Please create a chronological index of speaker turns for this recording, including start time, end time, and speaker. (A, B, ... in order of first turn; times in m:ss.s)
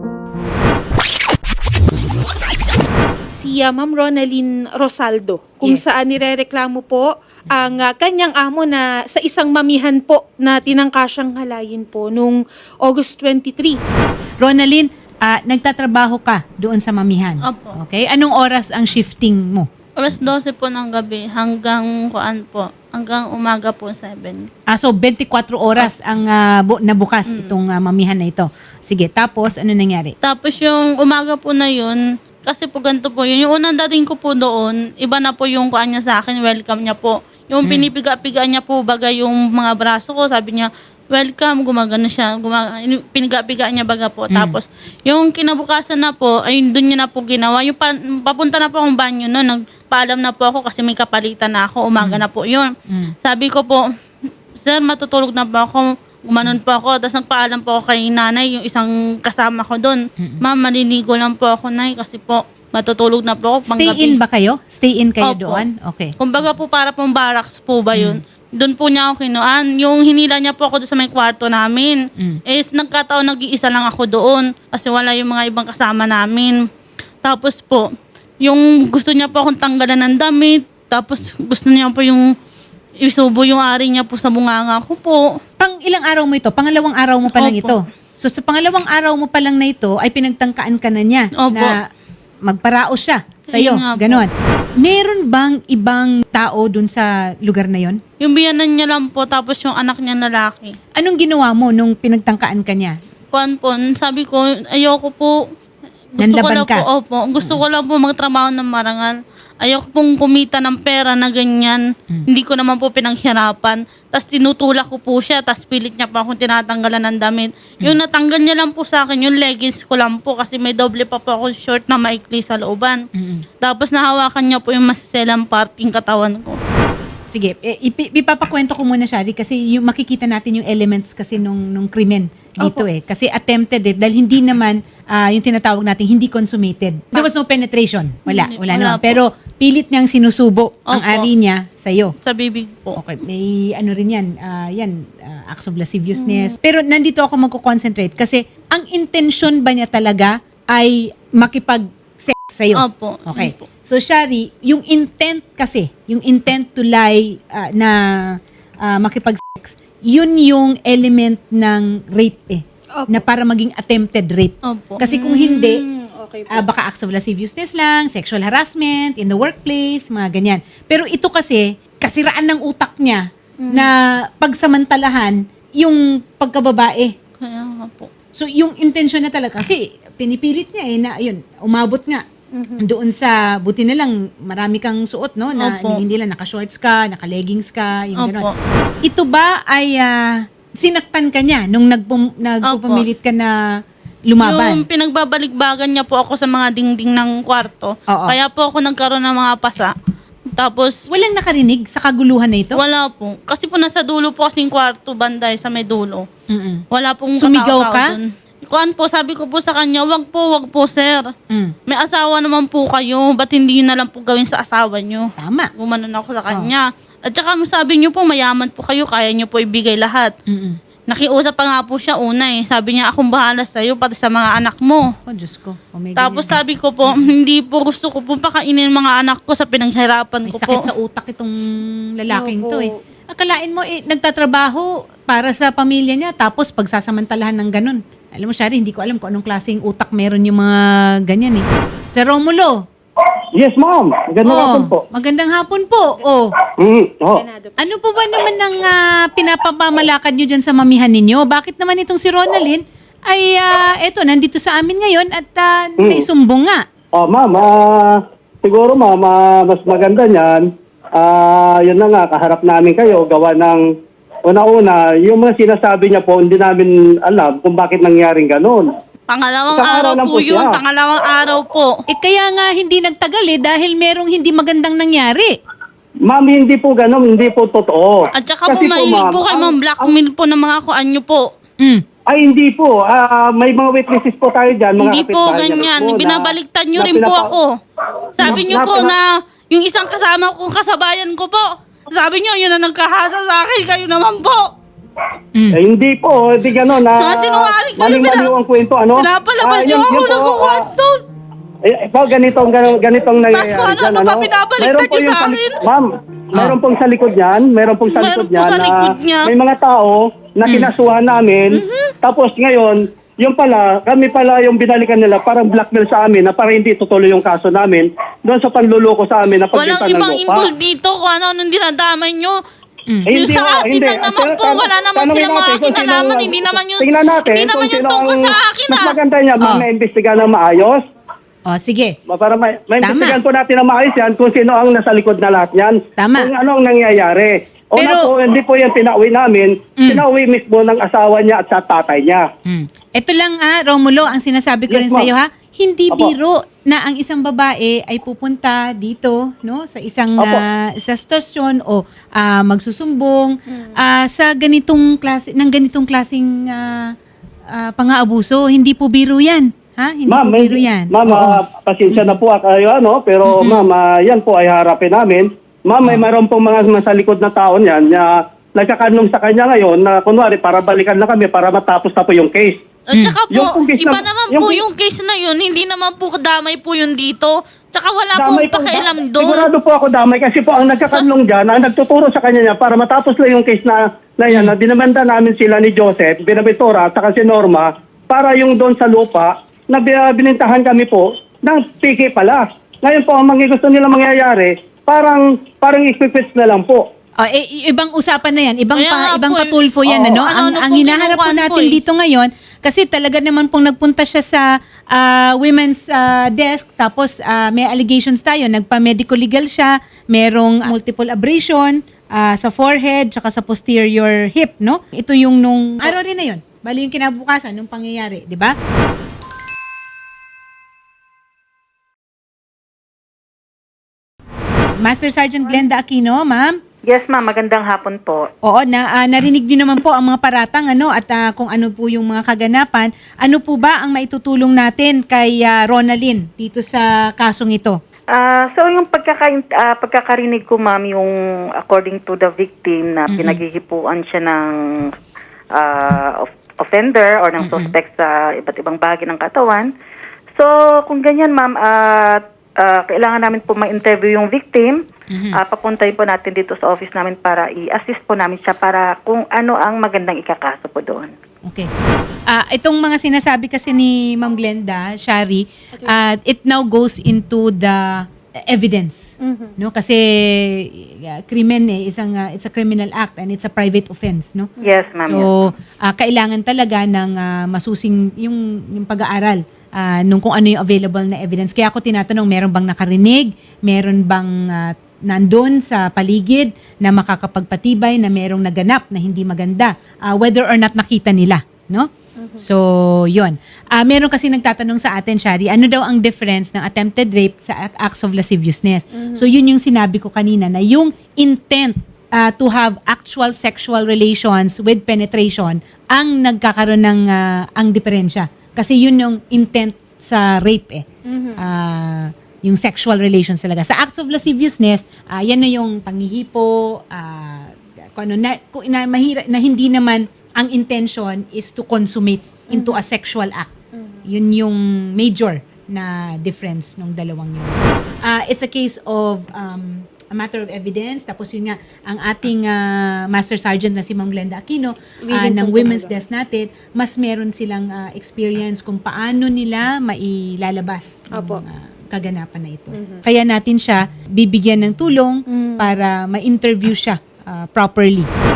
0:03.3-0:13.8 A
0:14.4-0:19.7 B
0:17.4-0:17.8 C
0:20.0-0:24.5 C
0:24.7-0:30.2 B
0:27.3-0:27.5 C
0:30.2-0:52.7 C
0:37.6-0:37.9 B
0:44.3-0:44.6 B
0:53.2-0:53.8 C
0:54.6-1:04.2 C
1:03.7-1:06.2 B
1:05.2-1:05.6 C
1:06.2-1:12.0 C
1:07.9-1:08.2 B
1:12.5-1:16.6 C
1:17.2-1:17.9 C
1:18.4-1:22.2 C
1:23.0-1:25.2 C
1:25.6-1:31.8 B
1:27.3-1:27.8 C
1:31.4-1:31.8 C
1:32.4-1:38.0 B
1:33.5-1:34.3 C
1:38.2-1:40.8 C
1:41.0-1:43.0 B
1:43.3-1:45.4 C
1:46.2-2:03.0 C
1:46.2-1:46.8 B
2:03.2-2:03.4 B
2:03.6-2:06.6 C
2:07.3-2:22.2 B
2:18.3-2:19.2 C
2:20.9-2:21.3 C
2:22.2-2:23.0 C
2:23.0-2:45.8 B
2:26.2-2:26.6 A
2:32.8-2:33.6 C
2:43.0-2:43.2 A
2:44.6-2:45.0 C
2:45.1-2:46.7 A
2:46.5-2:57.1 B
2:53.6-2:53.9 A
2:57.4-2:58.1 C
2:58.3-3:02.2 B
3:02.5-3:02.8 A
3:02.8-3:08.5 B
3:05.6-3:06.0 C
3:08.2-3:08.5 C
3:09.1-3:13.5 B
3:12.7-3:13.0 C
3:14.3-3:14.8 B
3:14.4-3:19.9 C
3:18.1-3:18.4 B
3:20.6-3:21.0 C
3:21.1-3:22.8 B
3:22.8-3:26.3 C
3:26.5-3:26.8 B
3:26.9-3:31.3 C
3:27.4-3:28.1 B
3:31.9-3:40.3 C
3:35.4-3:35.7 B
3:40.5-3:40.8 B
3:41.1-3:45.0 C
3:45.3-3:47.3 B
3:46.2-3:50.8 C
3:50.5-4:02.8 B
3:52.3-3:53.0 A
4:03.6-4:05.0 D
4:04.4-4:06.5 B
4:06.8-4:07.4 D
4:07.3-4:08.0 A
4:07.8-4:16.8 B
4:17.2-4:20.6 D
4:21.2-4:23.8 D
4:24.5-4:28.8 D
4:29.3-4:31.9 C
4:29.7-4:30.7 D
4:32.1-4:35.5 B
4:36.3-4:40.1 D
4:38.4-4:41.5 C
4:42.3-4:47.6 D
4:45.0-4:47.7 C
4:48.4-4:54.7 C
4:48.4-4:49.1 D
4:55.7-5:00.8 D
4:57.0-4:58.5 C
4:59.2-5:01.2 C
5:01.9-5:20.7 D
5:03.4-5:05.8 C
5:08.1-5:09.5 C
5:10.7-5:10.9 B
5:11.7-5:12.1 C
5:19.7-5:22.6 C
5:23.3-5:31.0 D
5:23.3-5:29.2 C
5:31.7-5:32.2 B
5:32.3-5:42.4 D
5:33.0-5:33.4 B
5:36.2-5:36.5 B
5:38.0-5:38.3 B
5:42.7-5:57.1 B
5:44.9-5:45.3 D
5:57.7-6:01.6 B
6:00.3-6:12.8 D
6:02.1-6:02.4 B
6:13.1-6:19.7 C
6:13.5-6:14.8 D
6:18.4-6:37.0 D
6:37.4-6:58.7 B
6:39.0-6:39.7 C
6:40.3-6:42.0 C
7:05.0-7:06.8 B
7:07.1-7:08.5 E
7:08.6-7:18.0 B
7:18.3-7:25.1 E
7:23.3-7:23.6 B
7:25.8-7:29.9 E
7:27.6-7:27.9 B
7:30.6-7:41.3 E
7:41.6-7:41.9 B
7:42.5-7:54.7 B
7:49.4-7:49.8 A
7:54.8-7:55.1 A
7:54.8-7:55.4 E
7:55.2-8:31.0 B
8:12.4-8:12.7 A
8:19.2-8:19.5 A
8:31.3-8:31.6 A
8:31.6-8:43.7 B
8:42.7-8:43.0 A
8:43.9-8:44.3 A
8:44.2-9:08.3 B
8:55.2-8:56.2 A
9:01.3-9:01.6 A
9:03.0-9:03.2 A
9:05.5-9:05.9 A